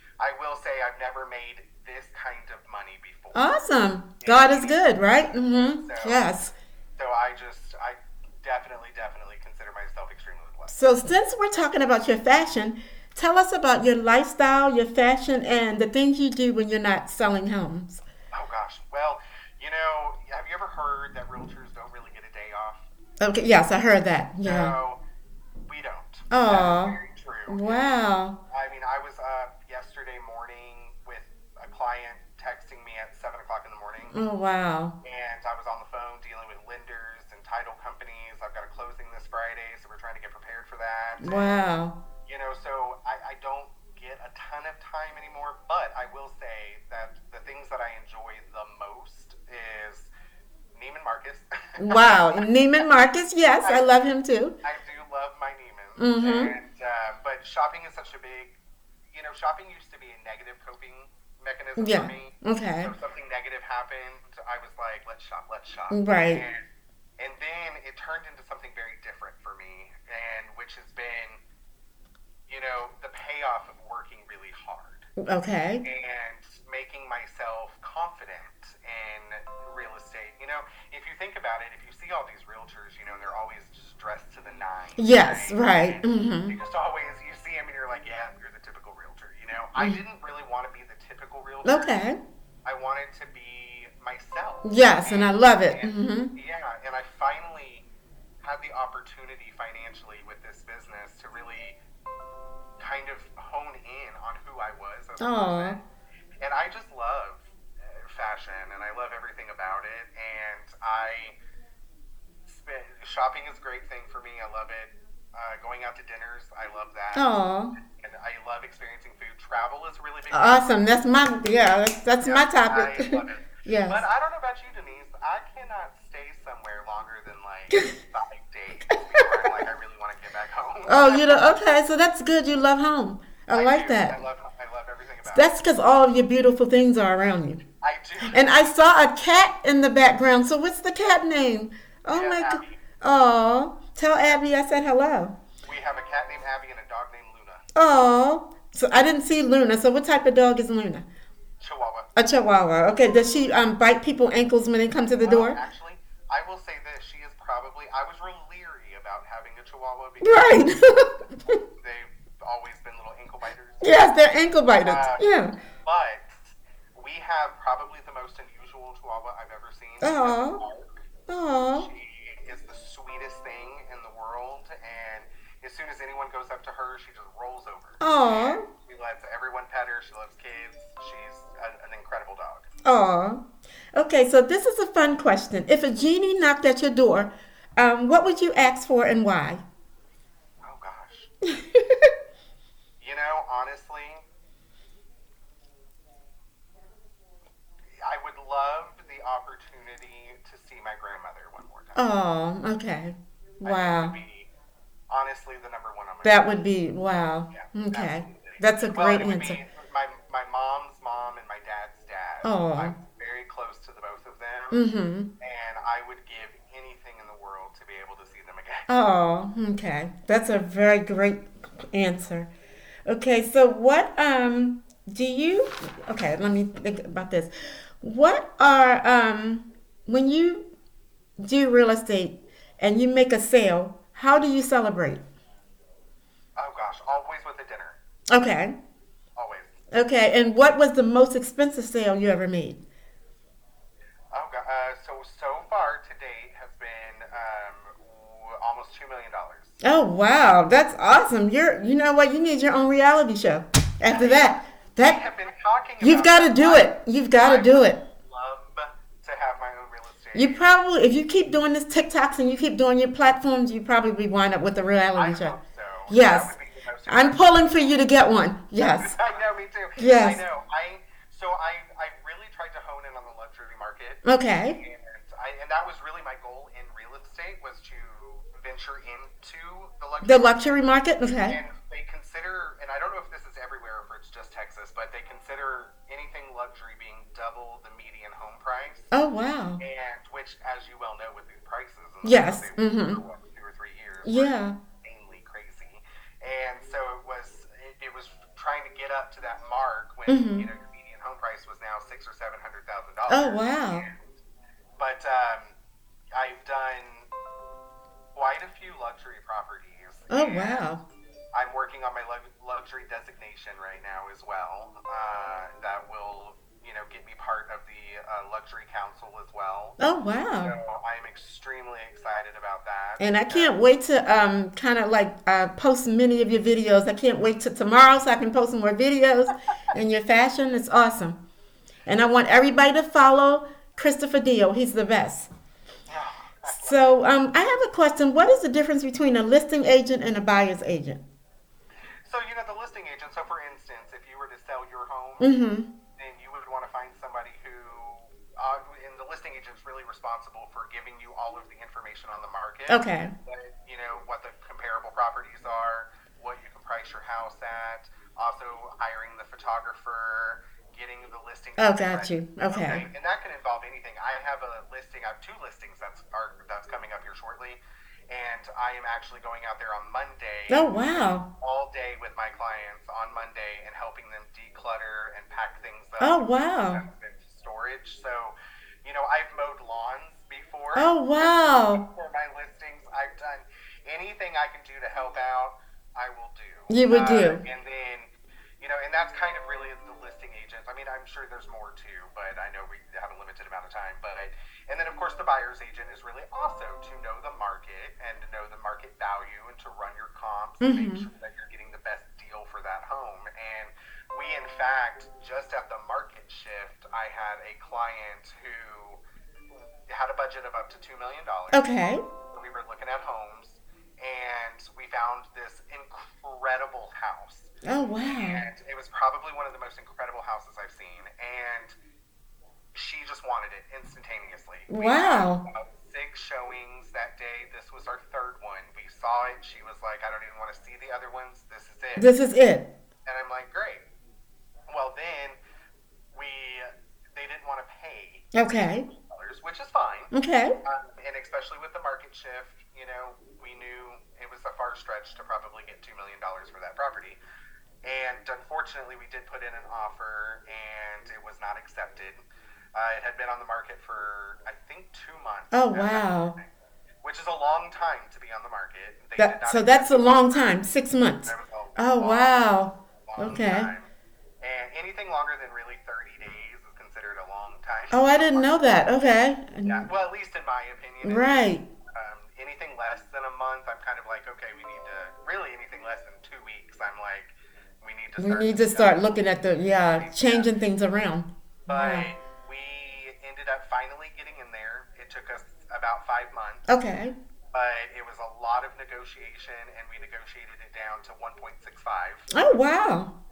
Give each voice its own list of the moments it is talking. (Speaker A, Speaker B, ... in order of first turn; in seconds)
Speaker A: 0.2-3.5, 4.2-6.3, 7.0-10.8, 18.3-22.9, 24.4-25.0, 25.7-27.8, 28.5-34.2, 35.0-41.6, 42.3-50.1, 50.8-52.4, 53.6-53.9, 54.6-58.6, 59.1-66.7, 67.2-71.4, 72.5-75.1, 75.8-97.9, 98.4-101.8, 102.8-105.8, 106.4-111.4, 112.5-117.3, 117.8-120.7, 122.2-131.5, 133.5-135.6, 137.8-138.7, 142.1-142.8, 145.6-147.6, 151.6-152.1, 155.2-160.6, 161.8-164.1, 164.8-165.3, 165.8-171.0, 171.8-182.7, 190.6-191.3, 193.0-194.2, 198.0-202.1, 203.6-204.5, 205.1-206.6, 207.5-214.8, 215.4-218.9, 236.6-238.0, 239.4-239.8, 244.3-249.8, 254.1-260.7, 265.2-268.0, 268.8-280.8, 281.4-289.1, 289.8-304.4, 305.0-305.8, 306.3-307.3, 308.4-310.9, 311.5-320.0, 320.6-323.8, 336.1-337.2, 342.2-345.5, 346.2-371.0, 371.6-409.2, 409.7-422.0, 422.9-432.3, 433.3-434.1, 434.9-435.6, 436.3-440.3, 440.8-447.4, 448.0-452.4, 452.9-456.7, 457.2-460.8, 461.4-462.7, 463.3-464.1, 464.6-469.0, 469.9-471.6, 472.1-479.5, 480.1-480.7, 481.9-486.9, 487.7-492.5
Speaker B: 3.3-6.5, 10.7-18.0, 23.2-24.7, 26.3-28.4, 34.1-35.0, 41.2-42.0, 51.8-54.5, 56.0-56.5, 61.8-62.9, 65.9-66.4, 75.2-75.8, 85.0-86.6, 91.7-92.2, 94.6-96.3, 105.2-105.8, 117.1-117.7, 120.3-124.0, 130.9-134.2, 135.3-137.6, 138.3-145.3, 147.8-151.1, 152.2-155.6, 160.2-161.6, 163.8-165.5, 170.0-170.6, 171.3-171.9, 178.0-178.7, 182.8-183.4, 183.9-189.6, 191.5-192.1, 202.0-204.2, 206.2-209.6, 212.4-213.0, 214.7-215.3, 218.9-222.5, 223.1-230.7, 231.4-235.2, 238.3-238.8, 239.9-242.8, 249.8-255.2, 256.0-258.0, 260.3-265.6, 266.1-266.5, 267.1-269.2, 270.0-270.4, 274.2-274.8, 280.2-281.6, 289.1-289.8, 292.2-293.2, 294.2-294.8, 300.3-300.7, 303.3-304.1, 310.3-311.0, 320.0-320.8, 323.2-331.4, 332.1-335.5, 336.8-341.2, 345.4-345.9, 352.9-353.3, 361.8-363.1, 370.7-371.5, 376.2-377.0, 380.9-382.0, 386.9-387.6, 400.8-401.3, 411.7-412.2, 417.8-418.6, 424.9-425.6, 432.2-432.9, 438.5-439.1, 440.3-440.7, 455.7-456.6, 459.4-463.9, 468.1-470.1, 471.2-471.9, 478.4-482.3, 486.9-487.3, 492.5-493.3